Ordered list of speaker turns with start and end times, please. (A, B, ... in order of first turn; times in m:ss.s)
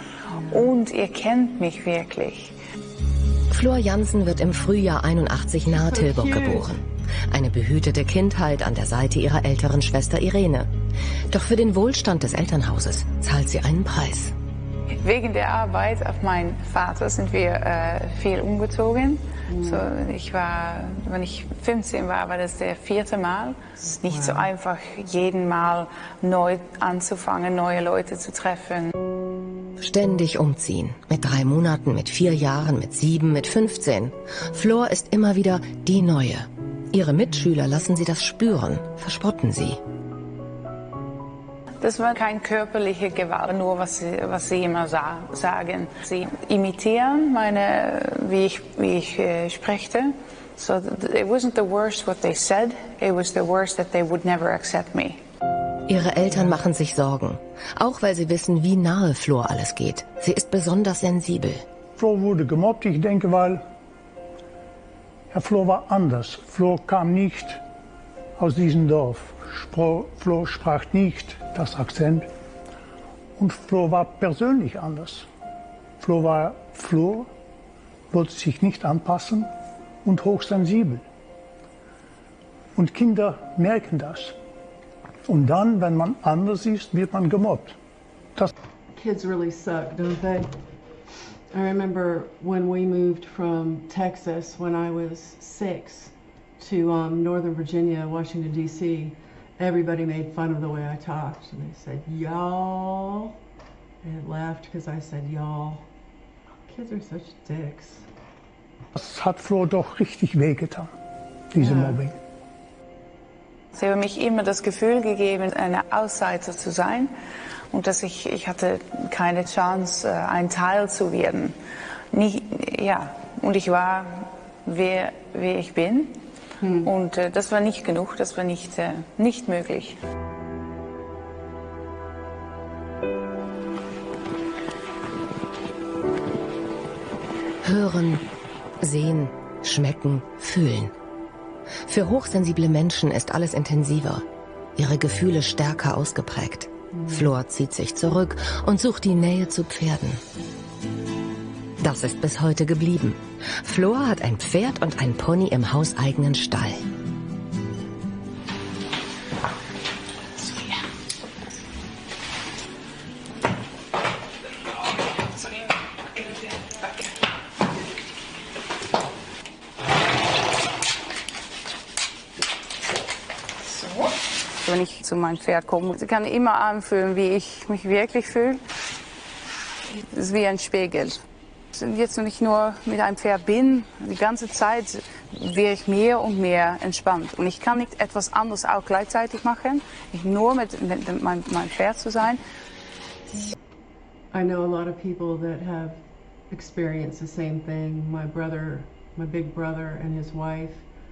0:00.3-0:00.7 A
0:00.5-0:02.6 B
0:03.5-0:10.7 C
0:05.8-0:06.7 A
0:11.3-0:14.3 C
0:15.0-0:28.9 B
0:19.5-0:19.9 A
0:23.8-0:24.5 A
0:29.8-0:39.8 C
0:41.8-0:55.2 B
0:55.9-1:01.6 C
1:02.0-1:03.6 D
1:05.3-1:07.6 D
1:08.4-1:12.3 D
1:13.4-1:15.3 D
1:16.0-1:17.3 D
1:18.1-1:19.5 D
1:20.0-1:21.1 D
1:22.8-1:24.4 D
1:25.3-1:27.8 D
1:29.0-1:30.5 A
1:31.5-1:43.4 A
1:44.0-1:45.9 A
1:46.7-1:48.1 A
1:49.0-1:50.9 D
1:51.5-1:52.2 D
1:51.6-1:52.0 A
1:53.7-1:57.1 B
1:57.7-2:01.6 B
2:02.1-2:06.2 B
2:06.6-2:06.9 A
2:06.8-2:10.0 B
2:17.6-2:18.2 C
2:18.8-2:20.9 C
2:21.9-2:30.2 C
2:26.9-2:27.3 A
2:31.8-2:36.8 C
2:53.8-2:54.1 B
2:54.6-2:58.6 B
2:59.9-3:01.2 B
3:01.8-3:12.4 B
3:14.3-3:20.8 A